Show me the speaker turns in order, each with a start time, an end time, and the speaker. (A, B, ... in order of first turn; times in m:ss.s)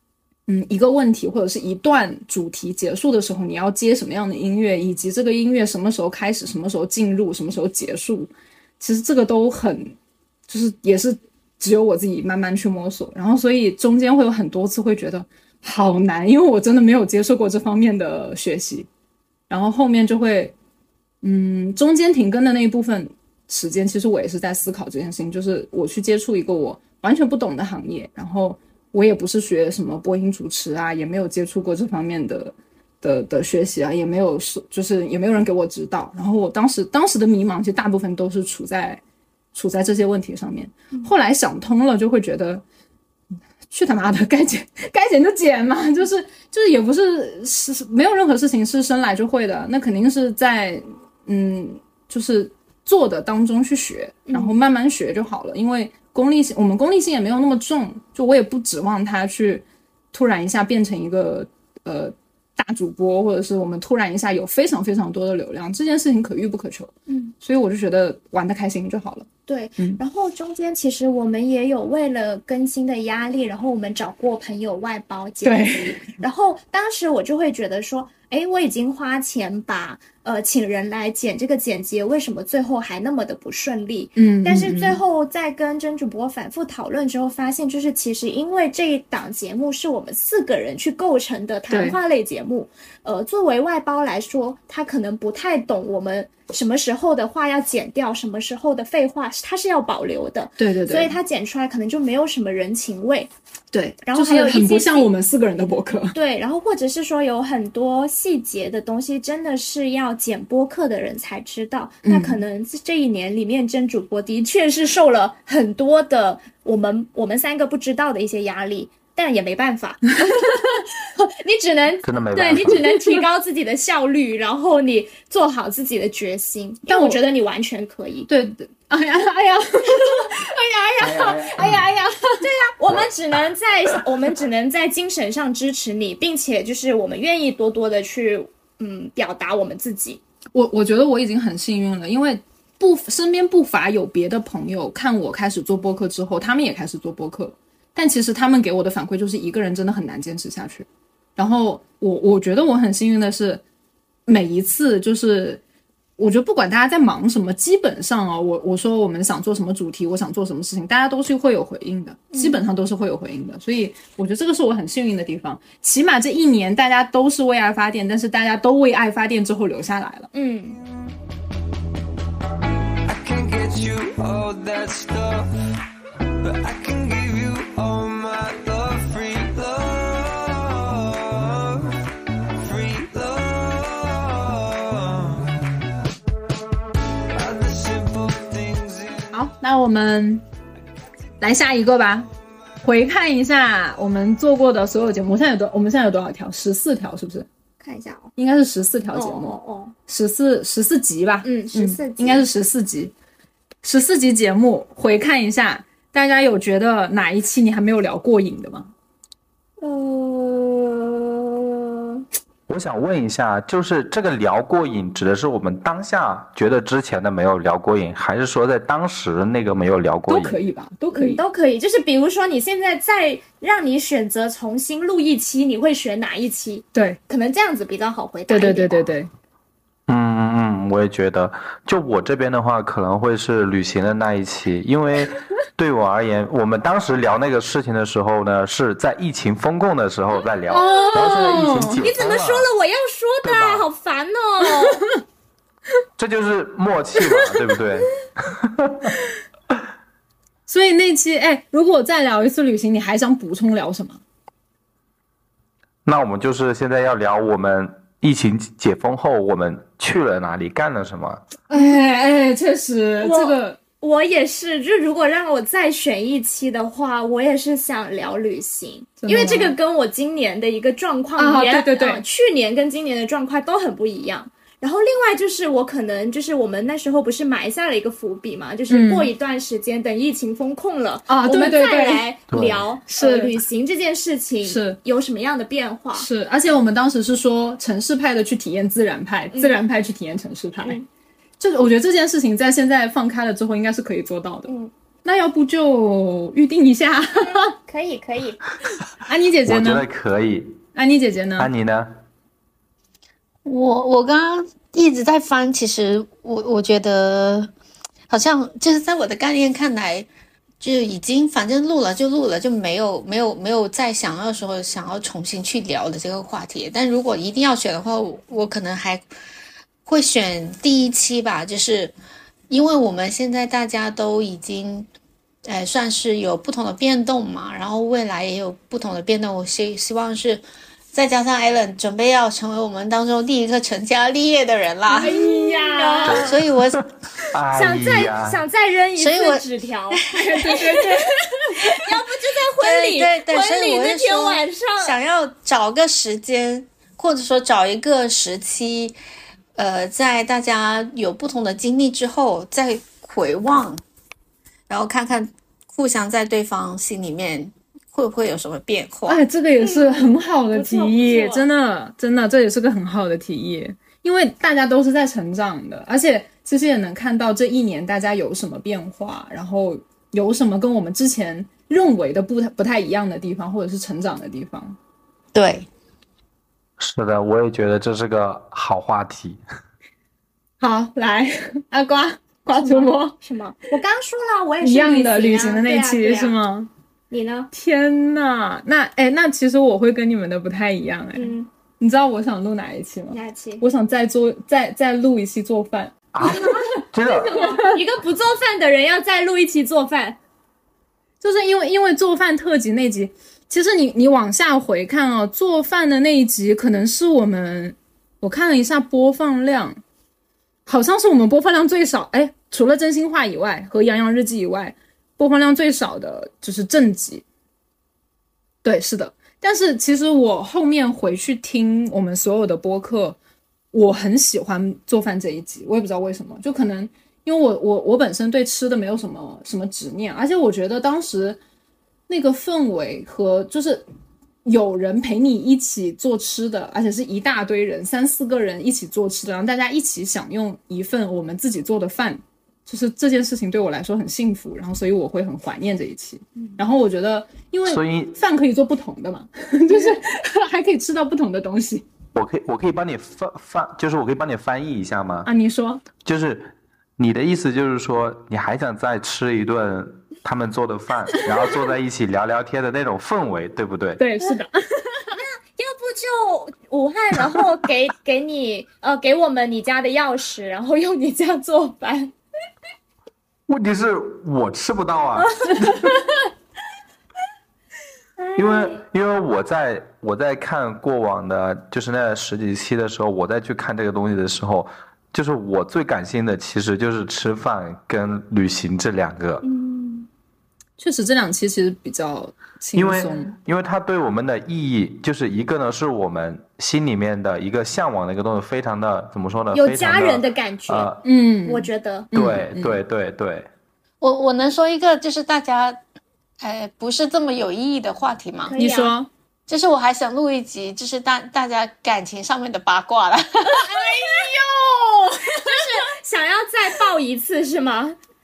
0:00.5-0:09.9 A
0:10.5-0:18.9 A
0:19.5-0:20.5 A
0:21.2-0:39.0 A
0:39.5-0:42.6 A
0:43.7-1:09.3 A
0:54.3-0:54.5 B
1:07.1-1:07.3 B
1:09.5-1:43.3 B
1:15.4-1:16.1 A
1:24.2-1:25.0 A
1:31.7-1:32.0 A
1:40.6-1:41.1 A
1:43.7-1:46.2 A
1:44.0-1:45.1 B
1:46.1-2:08.3 B
1:52.0-1:52.4 A
2:02.0-2:02.9 C
2:02.5-2:03.2 A
2:06.9-2:07.2 A
2:08.3-2:12.5 A
2:09.9-2:11.5 B
2:11.1-2:11.8 C
2:12.4-2:20.2 B
2:20.5-2:33.6 A
2:34.3-2:35.6 A
2:36.2-2:50.3 A
2:42.3-2:42.6 B
2:50.3-2:50.8 B
2:53.0-2:55.5 D
2:56.4-3:02.0 D
3:02.6-3:05.7 D
3:07.3-3:09.4 D
3:09.3-3:10.4 A
3:11.4-3:12.3 A
3:12.8-3:17.5 A
3:17.8-3:18.3 B
3:18.4-3:19.6 A
3:19.1-3:19.9 B
3:20.1-3:23.1 A
3:21.4-3:22.5 B
3:23.8-3:28.9 A
3:29.8-3:32.2 B
3:32.7-3:40.6 C
3:40.3-3:41.4 A
3:41.1-3:49.1 B
3:46.9-3:47.2 A
3:48.5-3:49.3 A
3:50.1-4:02.7 C
4:00.7-4:02.0 A
4:00.7-4:05.0 B
4:03.4-4:03.8 C
4:06.2-4:09.2 C
4:07.3-4:07.6 A
4:10.7-4:14.2 A
4:16.0-4:21.4 C
4:21.7-4:23.8 A
4:23.2-4:46.3 B
4:29.2-4:29.8 A
4:31.4-4:32.2 A
4:38.9-4:39.3 A
4:41.3-4:42.3 A
4:42.5-4:42.8 C
4:43.1-4:43.6 A
4:44.6-4:45.0 A
4:46.1-4:51.0 A
4:51.6-4:54.7 A
4:54.7-4:54.9 B
4:55.2-4:57.7 A
4:57.3-4:58.6 B
4:59.2-5:00.1 A
4:59.6-5:00.8 C
5:00.9-5:01.7 A
5:01.6-5:02.2 C
5:03.6-5:07.7 E
5:08.3-5:10.3 E
5:10.8-5:19.2 E
5:20.0-5:22.1 E
5:22.7-5:25.1 E
5:25.6-5:35.3 E
5:35.1-5:36.5 A
5:35.1-5:36.6 B
5:36.3-5:38.6 C
5:36.3-5:37.0 E
5:37.7-5:41.1 B
5:39.2-5:41.2 E
5:40.3-5:42.0 A
5:41.9-5:45.1 B
5:42.8-5:49.2 E
5:49.8-5:54.0 E
5:54.9-5:59.4 E
5:59.3-6:15.0 A
5:59.8-6:01.7 B
6:15.5-6:15.8 E
6:17.0-6:19.6 C
6:20.8-6:23.3 A
6:22.7-6:26.6 B
6:24.8-6:26.9 A
6:27.3-6:27.7 B
6:27.7-6:36.9 A
6:31.3-6:31.7 B
6:33.3-6:33.8 B
6:36.3-6:37.7 C
6:37.3-6:40.4 B
6:37.6-6:38.0 A
6:41.4-6:50.0 A
6:50.8-6:57.4 A
6:58.8-7:03.4 A
7:03.9-7:11.6 A
7:12.3-7:14.0 A
7:14.6-7:32.0 A
7:27.8-7:28.3 C
7:29.9-7:30.2 B
7:32.3-7:35.5 C
7:35.4-7:36.0 A
7:36.2-7:44.2 C
7:44.2-7:45.2 A
7:45.3-7:52.3 B
7:53.7-7:56.0 C
7:55.4-7:56.0 B
7:58.4-7:59.0 B
7:58.6-8:09.6 C
8:09.6-8:10.3 B
8:11.0-8:13.6 A
8:13.0-8:21.2 C
8:19.7-8:22.3 B
8:21.2-8:23.0 A
8:22.3-8:23.7 C
8:24.2-8:26.0 E
8:26.6-8:28.7 E
8:28.6-8:29.1 B
8:28.8-8:29.3 A
8:29.7-8:33.9 E
8:33.7-8:35.8 A
8:33.9-8:34.5 B
8:35.6-8:38.2 B